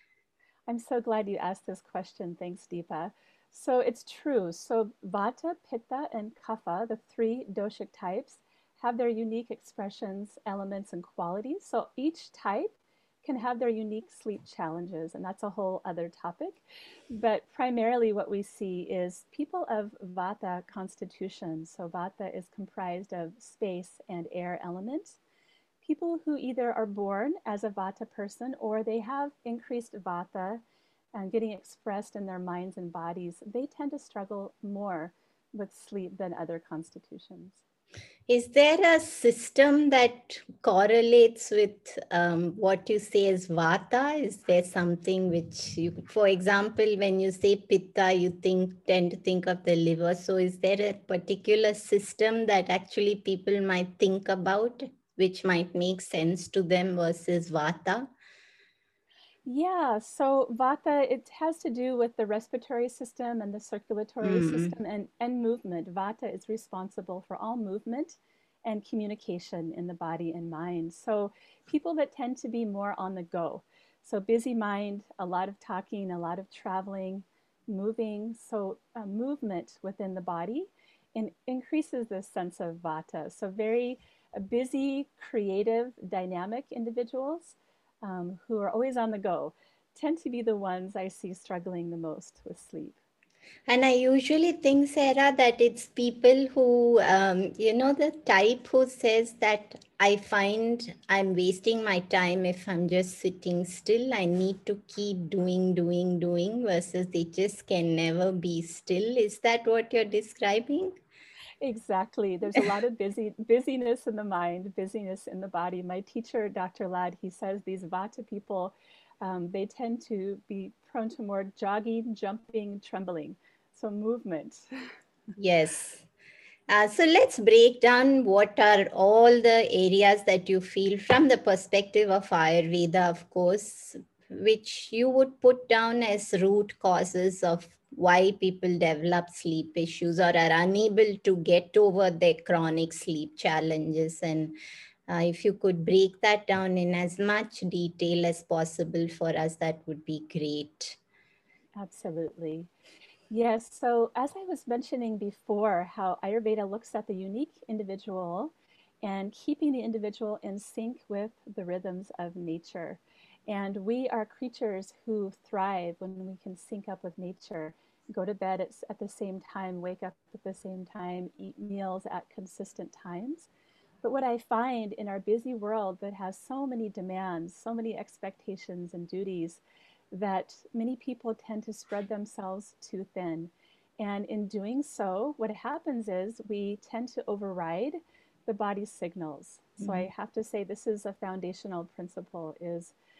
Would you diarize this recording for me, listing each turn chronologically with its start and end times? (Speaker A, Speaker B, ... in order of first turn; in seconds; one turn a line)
Speaker A: 0.7-25.2
Speaker A: 25.8-30.6
Speaker A: 31.1-37.6
Speaker B: 38.3-58.1
Speaker A: 59.5-93.0
Speaker B: 64.2-64.7
Speaker B: 93.7-110.9
Speaker A: 111.6-124.6
Speaker B: 125.4-126.0
Speaker B: 126.7-144.5
Speaker B: 145.1-151.0
Speaker A: 151.8-152.7
Speaker A: 153.3-173.5
Speaker A: 174.0-179.6
Speaker A: 180.1-192.9
Speaker B: 189.8-190.1